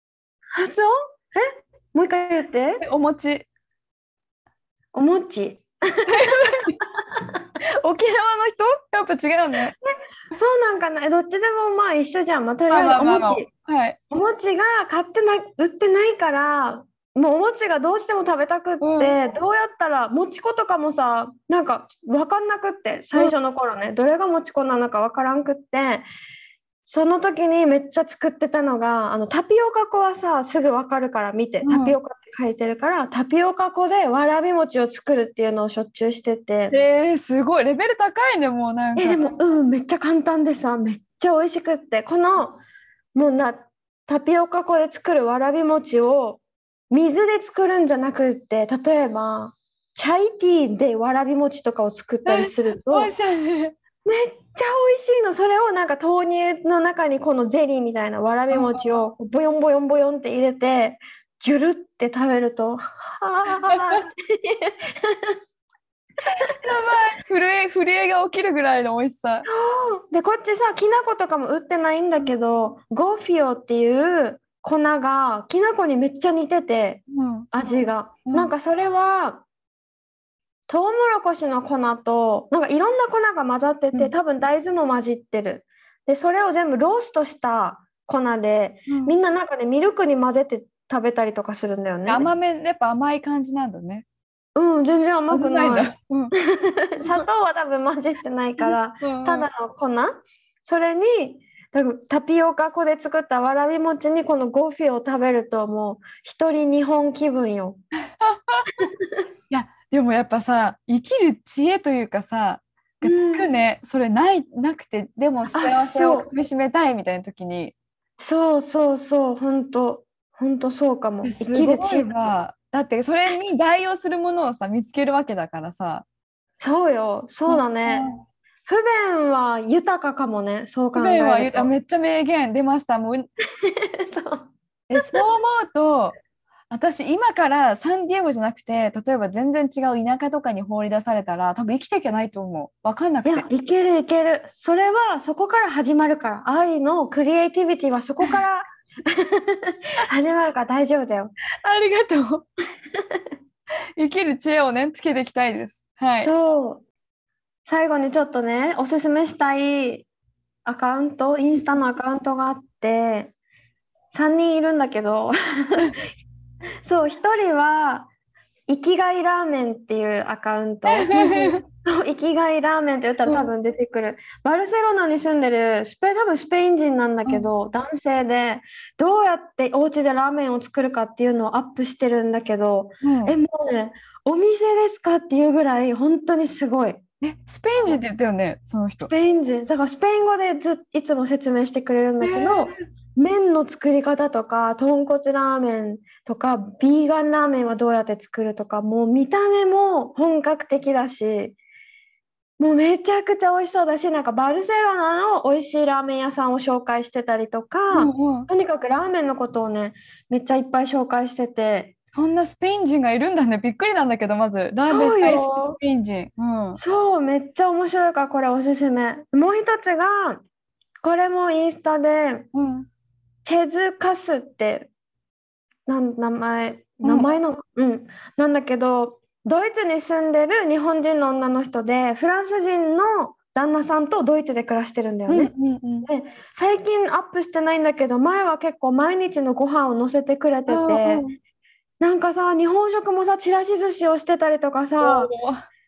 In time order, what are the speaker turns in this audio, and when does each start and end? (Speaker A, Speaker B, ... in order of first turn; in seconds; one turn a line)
Speaker A: 0.5-2.8
Speaker B: 2.8-3.5
Speaker A: 4.9-6.4
Speaker B: 6.1-6.8
Speaker B: 7.8-9.7
Speaker A: 10.3-13.5
Speaker B: 12.7-14.0
Speaker A: 14.1-26.1
Speaker B: 18.8-19.1
Speaker A: 26.8-36.8
Speaker B: 31.6-31.9
Speaker B: 36.7-39.2
Speaker A: 39.0-42.6
Speaker A: 43.1-46.4
Speaker A: 46.9-53.1
Speaker B: 52.2-53.7
Speaker A: 54.0-65.3
Speaker B: 58.5-58.8
Speaker B: 63.6-64.0
Speaker B: 66.2-69.5
Speaker A: 69.5-79.4
Speaker B: 77.1-77.5
Speaker B: 78.2-78.5
Speaker A: 80.7-92.3
Speaker B: 88.9-89.1
Speaker B: 92.0-94.0
Speaker A: 94.5-107.8
Speaker B: 95.3-96.3
Speaker B: 98.6-99.5
Speaker B: 108.0-108.7
Speaker A: 108.8-109.1
Speaker B: 109.5-117.7
Speaker A: 113.0-113.5
Speaker A: 115.5-116.3
Speaker A: 118.2-122.3
Speaker B: 121.2-126.0
Speaker A: 126.6-128.1
Speaker B: 127.5-128.2
Speaker A: 128.7-131.7
Speaker B: 130.9-133.3
Speaker A: 133.6-135.2
Speaker B: 134.9-136.1
Speaker B: 136.7-143.4
Speaker A: 143.2-151.3
Speaker B: 151.6-152.5
Speaker B: 154.0-156.3
Speaker A: 156.2-156.8
Speaker A: 157.6-160.1
Speaker A: 160.6-163.3
Speaker A: 164.1-165.9
Speaker A: 166.8-168.1
Speaker A: 168.7-187.0
Speaker B: 170.9-171.6
Speaker B: 183.0-183.3
Speaker B: 187.2-189.1
Speaker A: 189.1-201.6
Speaker B: 192.2-192.8
Speaker A: 202.6-211.9
Speaker B: 207.9-208.5
Speaker B: 212.1-216.8
Speaker A: 214.9-215.8
Speaker A: 216.7-220.4
Speaker A: 221.0-222.5
Speaker B: 222.5-222.9
Speaker A: 223.4-224.9
Speaker A: 225.9-235.5
Speaker B: 227.0-227.3
Speaker B: 235.3-236.1
Speaker A: 236.0-241.2
Speaker B: 240.7-241.4
Speaker A: 242.0-245.3
Speaker B: 245.0-245.7